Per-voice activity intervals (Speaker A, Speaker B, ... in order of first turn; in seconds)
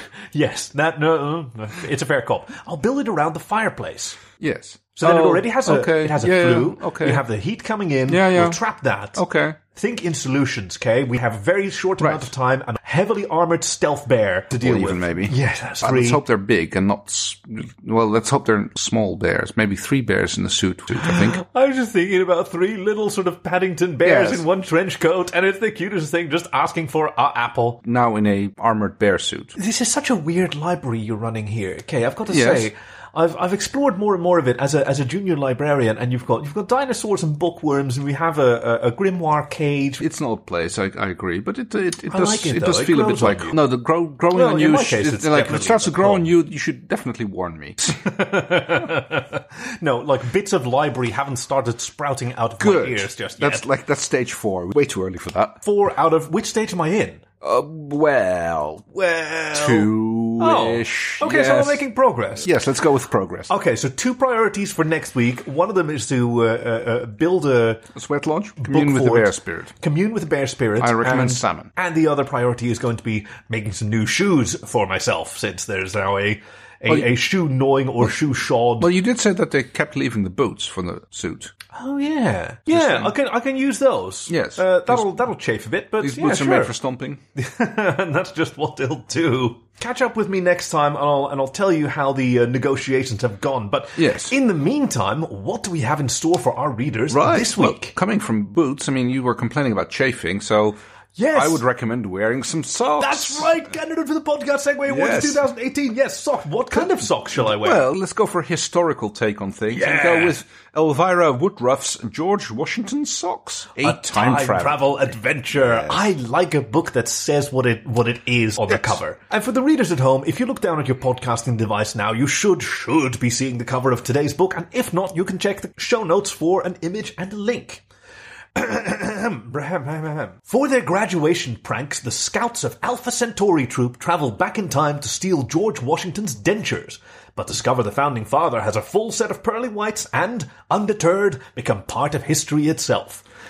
Speaker A: 0.3-4.2, 5.0-16.2, 20.9-27.8, 29.5-40.0, 42.1-43.6, 44.3-46.3, 47.9-53.6, 55.6-57.2, 58.9-62.5, 63.5-67.8, 68.6-78.9, 81.7-86.7, 87.3-97.9, 101.2-101.6, 103.0-107.8, 109.7-110.4, 113.8-127.8, 128.5-143.2
Speaker B: 4.4-7.2, 8.1-8.6, 9.2-9.6, 12.0-12.3, 14.6-21.4, 24.0-24.4, 27.8-29.5, 32.3-32.7, 40.0-47.8, 52.6-55.6, 57.4-58.9, 59.5-61.9, 62.4-63.5, 67.9-69.7, 70.8-71.7, 78.8-81.5, 82.7-83.1, 84.3-85.2, 86.0-87.2, 94.0-94.3, 97.1-100.8, 101.3-103.6, 104.9-105.4, 106.8-115.0, 115.5-116.0